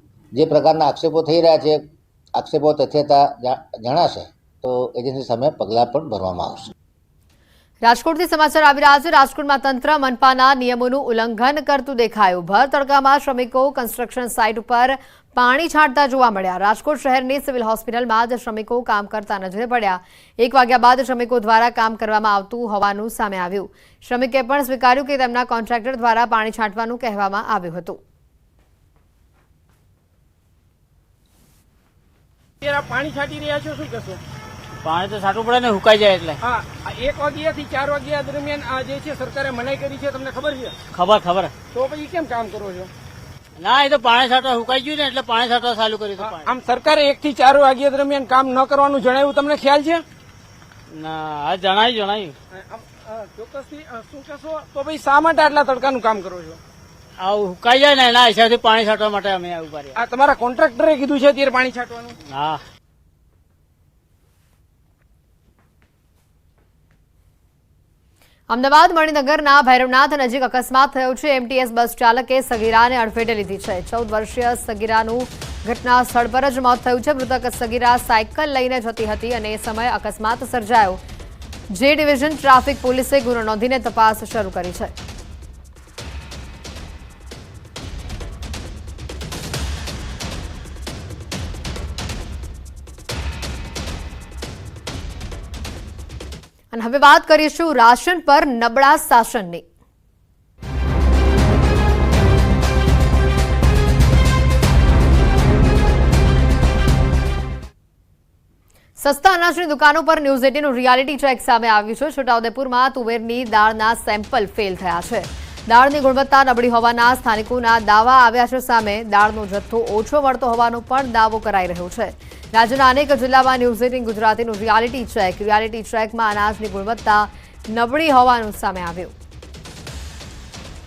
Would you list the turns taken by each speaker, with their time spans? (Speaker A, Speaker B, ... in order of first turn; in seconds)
Speaker A: 0.3-1.8, 2.4-6.7
Speaker B: 7.8-28.0, 68.5-81.0, 81.7-84.9, 96.7-99.6, 109.0-129.1
Speaker C: 32.6-34.2, 36.4-40.8, 41.7-42.9, 46.2-50.0, 52.5-56.6, 59.9-62.2
Speaker D: 34.8-36.4, 40.9-41.5, 43.6-46.5, 50.9-52.3, 57.2-59.9, 62.3-62.6